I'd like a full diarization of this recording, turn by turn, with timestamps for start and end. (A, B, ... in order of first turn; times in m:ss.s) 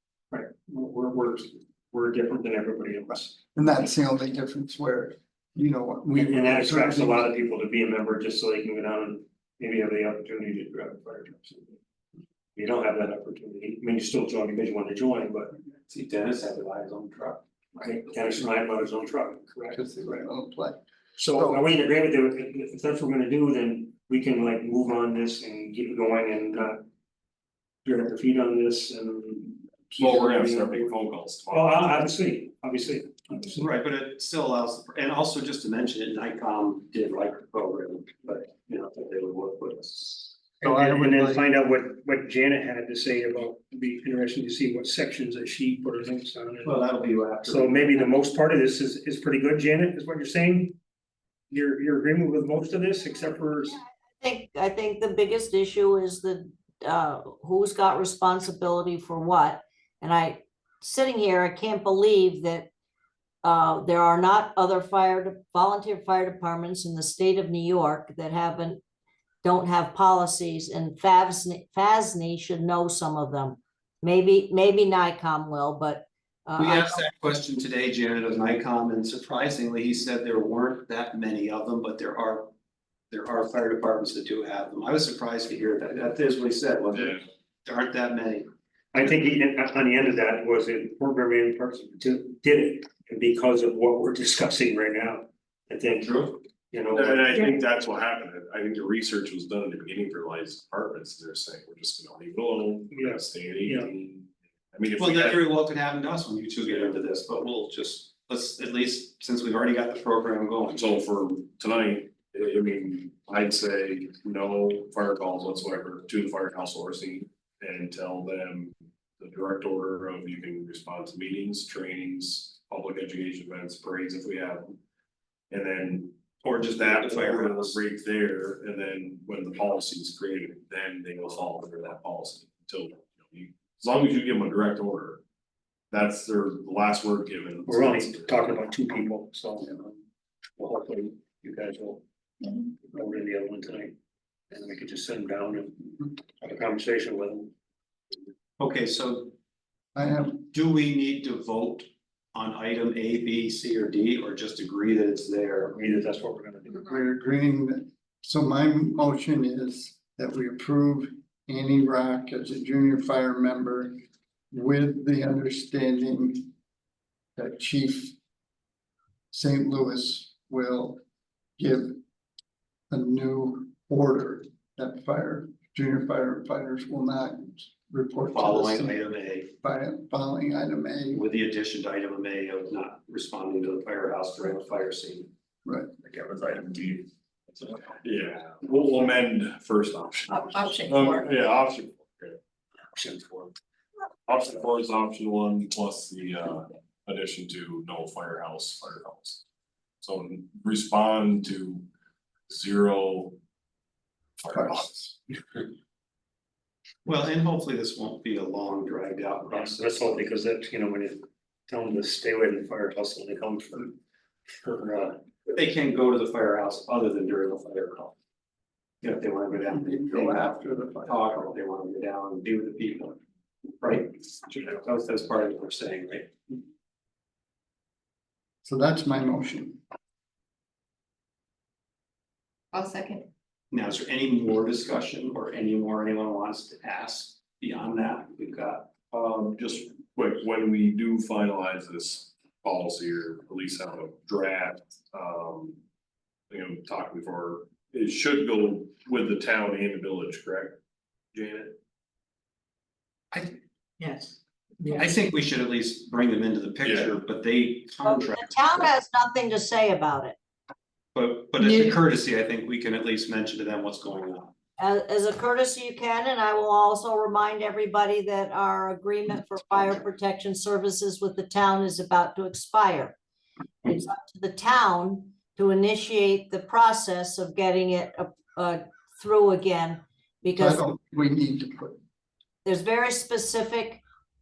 0:00.3-0:03.4 A
0:03.5-0:07.3 B
0:06.1-0:11.8 A
0:12.6-0:15.5 A
0:15.9-0:17.4 C
0:17.8-0:20.2 A
0:19.7-0:21.6 B
0:21.2-0:26.8 A
0:27.8-0:30.9 A
0:30.0-0:32.1 D
0:31.5-0:33.7 A
0:33.6-0:40.4 C
0:40.6-0:46.8 A
0:40.6-0:41.5 B
0:46.6-0:48.1 C
0:47.4-0:50.8 A
0:51.5-0:53.8 A
0:54.2-1:02.7 E
1:03.4-1:08.8 E
1:09.4-1:17.0 E
1:16.6-1:22.5 C
1:23.1-1:28.5 C
1:27.0-1:27.2 D
1:28.9-1:37.6 A
1:36.9-1:45.4 D
1:42.9-1:43.9 A
1:45.0-1:50.9 C
1:50.7-2:04.8 D
2:05.5-2:15.2 D
2:06.4-2:07.8 C
2:15.9-2:18.6 D
2:17.7-2:19.9 A
2:20.6-2:23.9 A
2:24.5-2:27.5 A
2:28.6-2:29.3 C
2:29.9-2:30.5 B
2:30.5-2:35.8 C
2:35.7-2:36.9 A
2:36.8-2:44.0 B
2:44.5-2:46.5 B
2:47.4-2:48.2 B
2:49.3-2:51.0 B
2:51.6-2:52.0 B
2:52.9-2:59.0 B
2:58.3-2:59.5 C
2:59.6-3:01.2 B
3:01.1-3:05.3 C
3:05.6-3:05.9 B
3:08.0-3:12.4 D
3:10.4-3:11.2 F
3:12.9-3:13.5 A
3:14.3-3:19.4 D
3:20.0-3:21.9 D
3:22.5-3:23.4 D
3:24.4-3:25.2 D
3:27.0-3:30.0 C
3:29.5-3:34.0 A
3:34.6-3:35.2 A
3:35.5-3:38.1 C
3:39.0-3:43.2 C
3:39.7-3:41.4 B
3:43.8-3:46.3 C
3:48.6-3:49.8 B
3:52.8-3:53.0 F
3:53.7-3:58.9 C
3:59.1-4:05.8 D
4:06.5-4:10.8 D
4:11.3-4:11.8 D
4:13.3-4:13.6 C
4:14.0-4:15.0 F
4:14.9-4:18.9 C
4:16.8-4:17.1 D
4:18.0-4:20.4 E
4:21.1-4:24.5 C
4:24.8-4:33.2 E
4:33.8-4:40.8 E
4:40.6-4:42.0 B
4:42.6-4:44.0 E